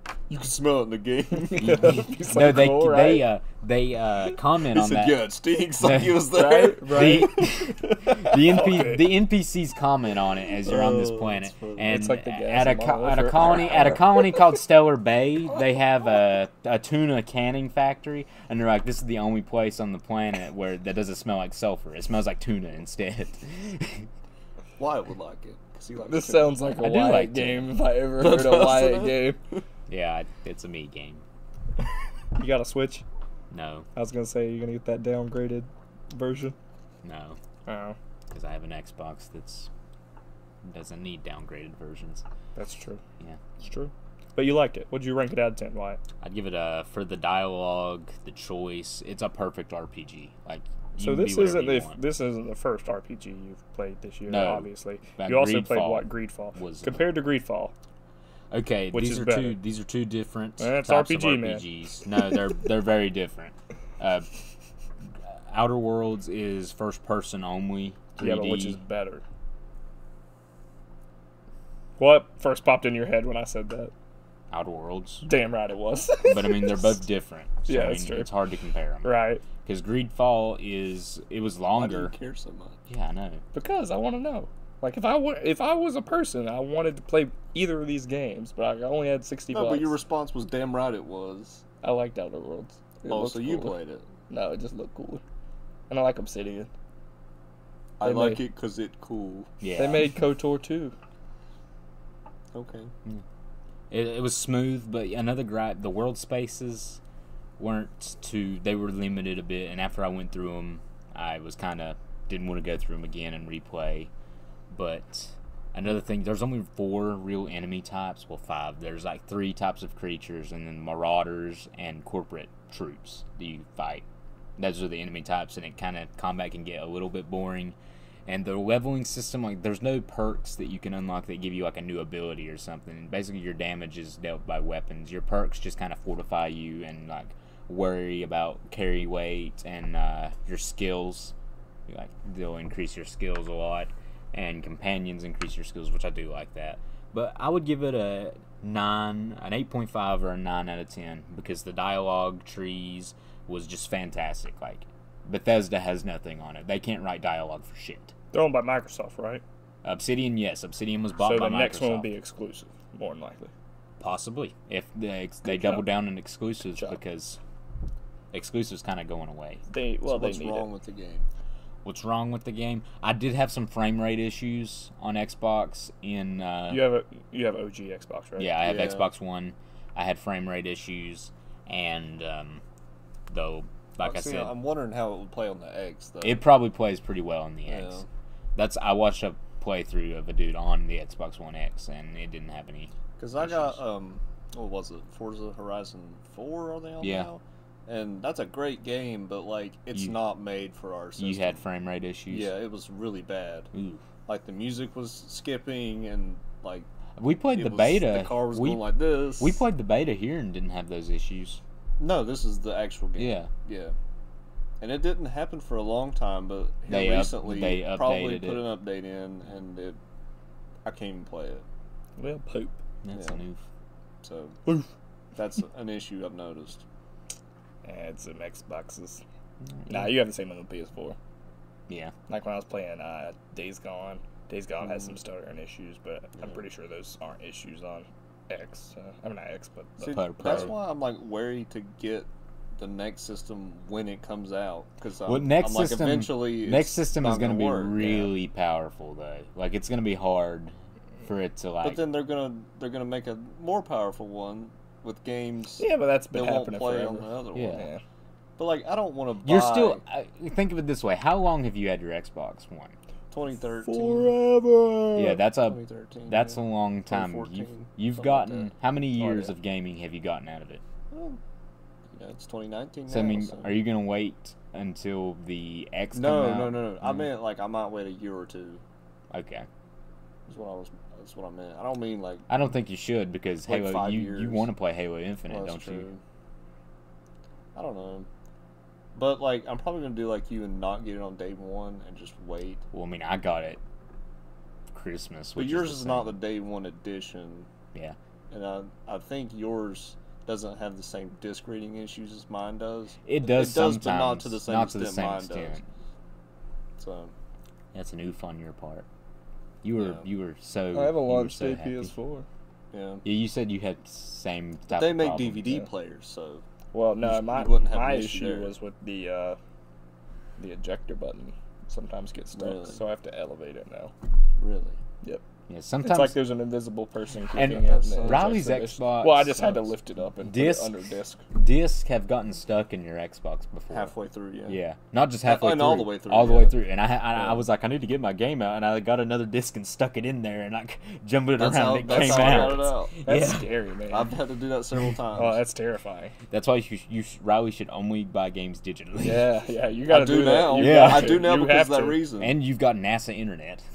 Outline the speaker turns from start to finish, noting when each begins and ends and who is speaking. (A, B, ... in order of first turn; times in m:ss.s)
0:00.3-0:02.2 A
0:01.4-0:03.3 B
0:01.6-0:05.2 C
0:04.6-0:08.4 A
0:05.8-0:06.3 C
0:06.3-0:07.4 B
0:06.8-0:24.1 C
0:08.5-0:09.0 B
0:10.6-0:11.8 A
0:11.8-0:14.3 B
0:24.8-0:26.7 A
0:26.1-0:29.4 B
0:26.6-0:27.7 C
0:28.2-0:29.4 A
0:29.9-0:31.2 C
0:32.4-0:33.0 B
0:33.5-0:33.9 C
0:33.9-0:36.6 B
0:37.0-0:37.4 C
0:37.7-0:38.0 B
0:38.3-0:39.7 C
0:40.6-0:42.2 C
0:42.6-0:43.0 B
0:43.6-0:46.0 B
0:46.2-0:52.0 C
0:51.0-0:57.7 B
0:54.3-0:57.2 C
0:58.5-1:04.3 C
0:58.9-0:59.6 B
1:00.6-1:01.6 B
1:05.2-1:08.8 C
1:08.2-1:09.2 B
1:12.0-1:13.9 B
1:14.5-1:15.2 C
1:15.2-1:17.0 B
1:16.2-1:22.1 C
1:17.7-1:18.3 B
1:19.0-1:19.4 B
1:21.7-1:22.8 A
1:22.9-1:23.4 C
1:23.5-1:30.0 B
1:29.5-1:31.6 A
1:31.8-1:33.8 B
1:33.1-1:34.1 A
1:34.3-1:35.2 B
1:35.9-1:36.7 B
1:38.0-1:39.5 A
1:38.0-1:38.4 B
1:39.6-1:40.1 C
1:39.8-1:40.9 B
1:42.5-1:42.9 A
1:43.9-1:47.0 C
1:47.6-1:54.1 C
1:54.7-2:04.0 C
2:04.6-2:21.3 C
2:21.9-2:38.1 C
2:38.3-2:39.4 B
2:39.8-2:42.1 C
2:41.2-2:43.5 B
2:44.0-2:47.4 C
2:45.4-2:45.9 B
2:46.7-2:47.0 B
2:48.3-2:49.6 C
2:49.7-2:50.7 B
2:50.0-2:51.3 A
2:51.8-2:56.8 C
2:56.7-2:58.5 B
2:58.4-3:02.6 C
2:58.6-2:59.0 A
3:03.3-3:04.5 C
3:04.0-3:06.4 A
3:06.2-3:08.0 C
3:07.7-3:08.1 A
3:08.6-3:13.8 C
3:13.2-3:21.6 A
3:17.0-3:17.3 C
3:21.2-3:22.5 C
3:22.3-3:23.7 A
3:23.7-3:24.0 C
3:24.2-3:26.9 A
3:27.2-3:31.6 C
3:27.5-3:29.6 A
3:32.0-3:33.9 A
3:33.2-3:33.5 C
3:34.8-3:40.0 A
3:36.9-3:38.7 C
3:40.8-3:41.6 A
3:42.2-3:42.8 B
3:43.0-3:43.6 C
3:43.1-3:43.4 A
3:44.2-3:44.6 A
3:45.3-3:46.8 A
3:47.8-3:49.2 B
3:49.8-3:50.1 C
3:49.8-3:51.2 B
3:51.9-3:52.1 C
3:52.3-4:00.7 B
4:00.0-4:08.1 A
4:00.1-4:00.7 C
4:05.2-4:10.7 C
4:11.2-4:12.0 C
4:11.8-4:17.8 A
4:15.8-4:18.0 B
4:17.5-4:17.8 C
4:18.6-4:20.0 A
4:19.4-4:22.9 C
4:23.3-4:24.4 A
4:23.8-4:25.4 B
4:25.1-4:30.8 C
4:25.6-4:29.5 A
4:31.1-4:31.4 A
4:32.1-4:33.8 A
4:33.1-4:37.3 C
4:36.1-4:38.8 A
4:39.3-4:39.7 C
4:40.5-4:42.4 A
4:42.5-4:46.1 C
4:43.7-4:44.7 A
4:45.5-4:46.2 A
4:47.7-4:48.3 A
4:49.1-4:52.8 A
4:52.9-4:53.8 C
4:54.9-4:56.4 C
4:55.6-4:57.7 A
4:58.5-5:05.8 A
5:03.2-5:05.8 C
5:07.0-5:07.3 A
5:07.9-5:09.0 C
5:09.8-5:12.1 C
5:09.9-5:10.2 A
5:10.9-5:12.4 B
5:12.9-5:13.2 A
5:13.2-5:15.7 C
5:14.9-5:16.6 A
5:16.9-5:19.6 B
5:17.2-5:18.7 A
5:20.6-5:24.1 B
5:22.5-5:23.0 A
5:24.6-5:25.0 A
5:25.7-5:26.4 C
5:26.0-5:31.4 B
5:27.5-5:29.9 C
5:27.6-5:28.6 A
5:30.4-5:30.9 C
5:31.5-5:34.1 C
5:33.9-5:34.8 A
5:34.7-5:43.7 C
5:35.4-5:36.8 A
5:41.6-5:43.2 A
5:42.1-5:44.3 B
5:44.1-5:45.6 A
5:45.3-5:46.3 B
5:46.5-5:49.5 C
5:49.2-5:52.2 B
5:50.1-5:52.6 A
5:50.7-5:51.4 C
5:52.4-5:53.8 C